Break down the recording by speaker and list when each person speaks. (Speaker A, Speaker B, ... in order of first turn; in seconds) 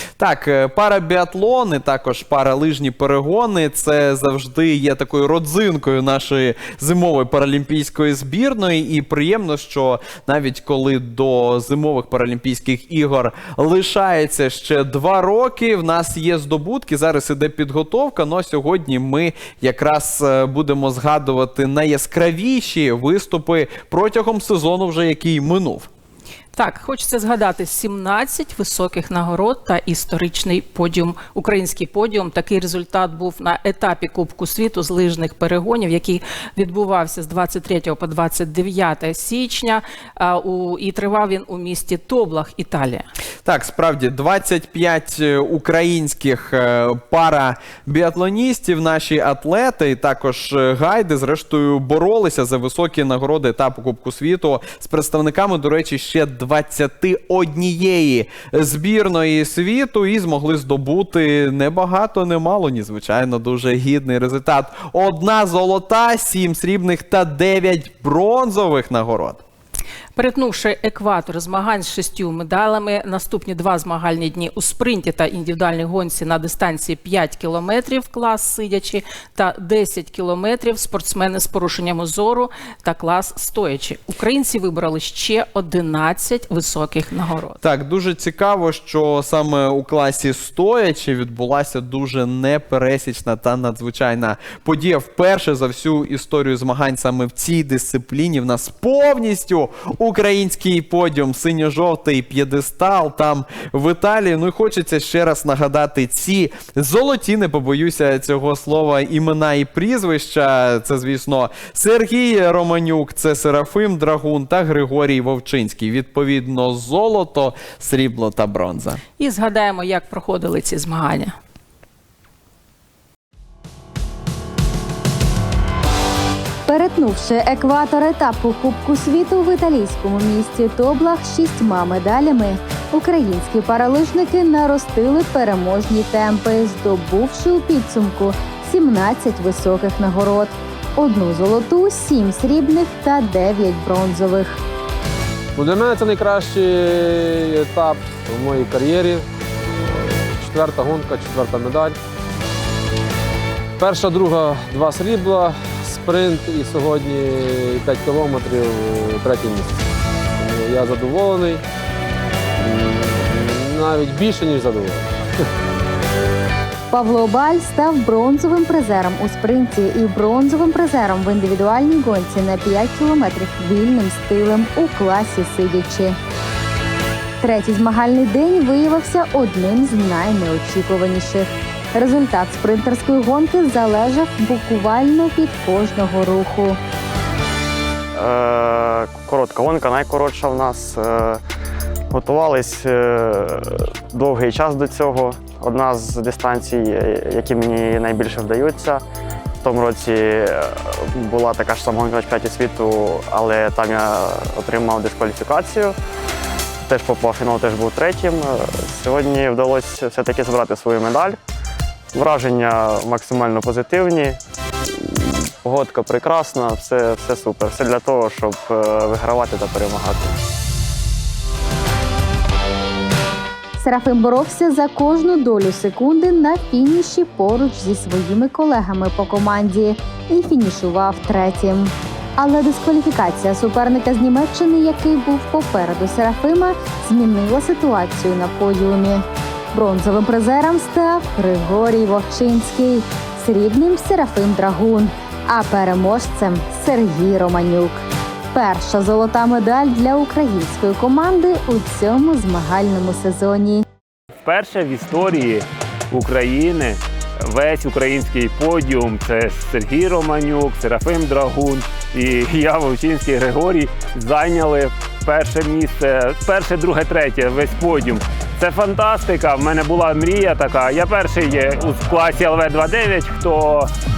Speaker A: 0.2-25.9, 43.5-69.4, 87.6-119.0
Speaker B: 26.6-43.1, 70.2-87.6, 119.2-121.3
Speaker C: 126.7-144.6, 166.9-176.2, 177.4-186.8, 223.8-248.0, 248.5-253.9
Speaker D: 145.6-149.2, 150.4-152.0, 153.8-161.6, 162.6-165.1
Speaker E: 188.2-191.4, 192.1-199.0, 199.6-205.9, 206.9-211.4, 212.1-214.4, 215.0-220.4
Speaker F: 254.4-273.9